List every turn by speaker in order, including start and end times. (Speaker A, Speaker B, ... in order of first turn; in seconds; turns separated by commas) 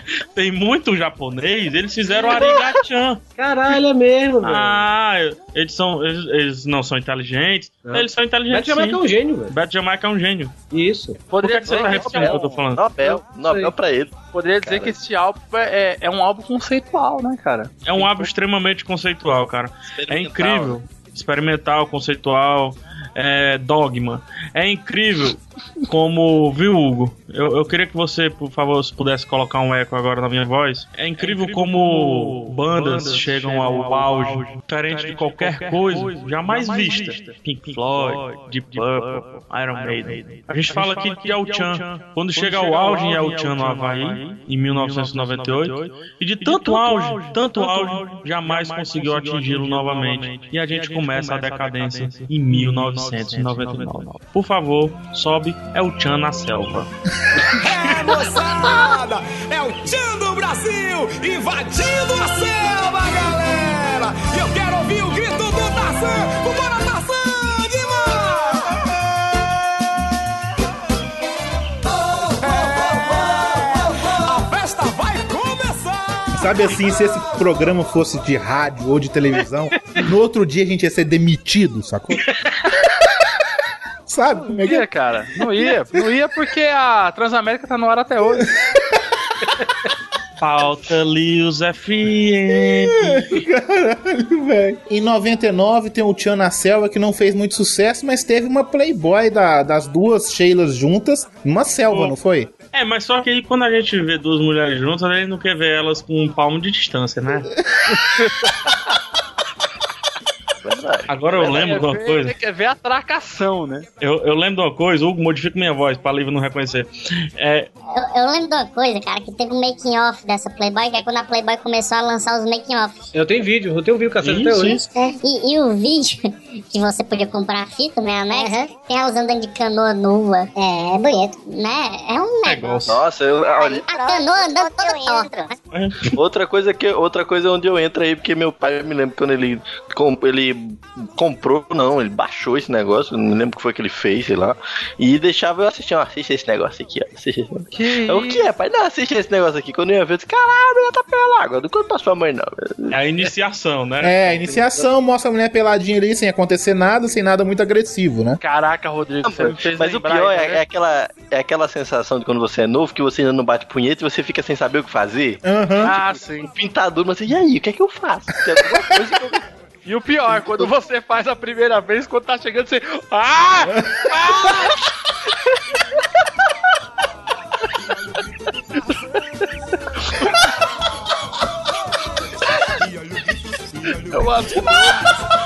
Speaker A: 0.3-3.2, Speaker B: 2.2-2.8, Speaker C: 3.4-4.8, Speaker A: 4.4-10.5, Speaker C: 7.8-9.5, Speaker C: 10.7-11.2, Speaker D: 11.3-12.5, Speaker A: 11.4-12.9, Speaker B: 11.7-15.0, Speaker C: 13.4-13.7, Speaker D: 14.3-18.3, Speaker A: 17.8-56.9, Speaker B: 19.9-20.8, Speaker E: 57.5-68.8, Speaker E: 72.1-76.5, Speaker F: 76.3-82.3, Speaker F: 84.1-84.9, Speaker D: 84.6-88.5, Speaker A: 90.4-93.4, Speaker F: 92.7-102.5, Speaker A: 101.9-102.2, Speaker A: 102.7-107.5, Speaker D: 108.2-108.5, Speaker B: 110.6-111.8, Speaker A: 111.1-112.3, Speaker D: 111.4-113.9, Speaker A: 114.0-117.7, Speaker G: 117.9-123.0, Speaker C: 123.1-124.8, Speaker A: 124.2-124.8, Speaker G: 124.8-132.9, Speaker A: 132.4-133.0, Speaker B: 132.9-133.8, Speaker G: 133.5-135.6, Speaker A: 135.7-136.2, Speaker B: 136.2-152.9, Speaker D: 147.7-148.5, Speaker A: 152.9-154.2, Speaker F: 154.0-158.4, Speaker D: 154.3-154.7, Speaker D: 158.4-160.6, Speaker B: 159.2-169.4, Speaker F: 165.4-165.9, Speaker D: 165.8-166.5, Speaker D: 169.8-174.8, Speaker B: 170.3-170.7, Speaker F: 173.7-174.1, Speaker E: 177.9-179.0, Speaker E: 182.8-185.1, Speaker D: 184.1-184.9